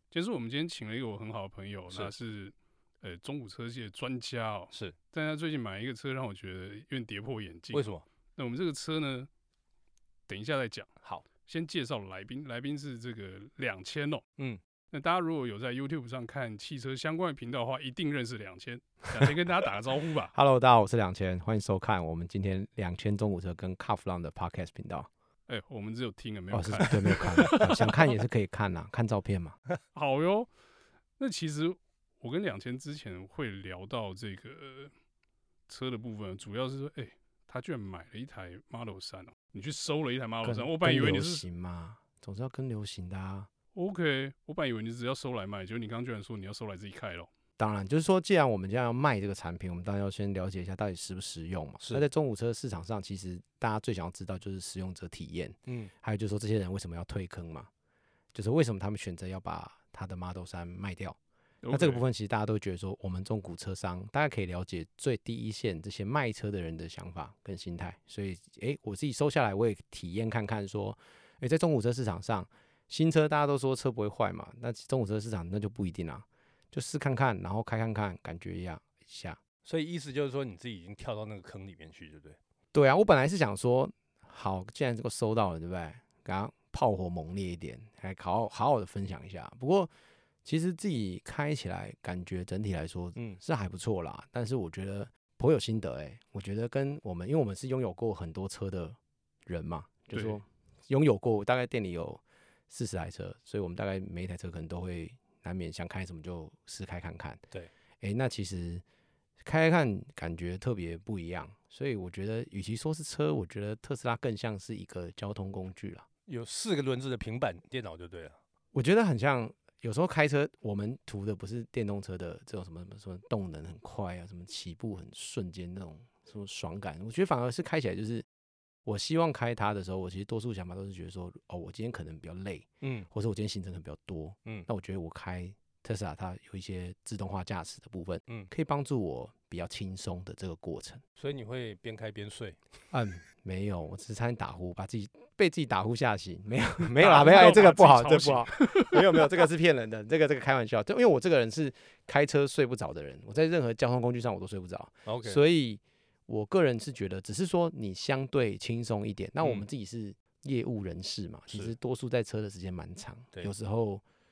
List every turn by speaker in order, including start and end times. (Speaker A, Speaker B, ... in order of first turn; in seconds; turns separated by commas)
Speaker A: 0.1-9.3, Speaker B: 7.7-8.0, Speaker A: 10.3-10.9, Speaker A: 11.4-14.2, Speaker A: 14.9-20.3, Speaker C: 20.3-25.1, Speaker A: 25.5-27.8, Speaker C: 26.5-29.6, Speaker B: 27.3-27.8, Speaker A: 29.9-30.5, Speaker A: 31.2-34.9, Speaker A: 35.7-41.4, Speaker C: 40.4-43.5, Speaker A: 43.7-47.3, Speaker C: 47.6-57.7, Speaker B: 55.7-55.9, Speaker C: 58.3-61.2, Speaker A: 61.6-62.0, Speaker C: 61.7-79.4, Speaker B: 79.7-82.4, Speaker C: 82.7-89.9, Speaker C: 90.5-107.4, Speaker A: 100.1-100.4, Speaker C: 108.0-108.8, Speaker C: 109.4-116.1, Speaker B: 116.3-118.4, Speaker C: 118.7-128.3, Speaker C: 128.8-141.0, Speaker B: 132.8-133.1, Speaker B: 141.2-142.6, Speaker C: 142.9-164.0, Speaker A: 147.0-149.0, Speaker B: 155.1-155.4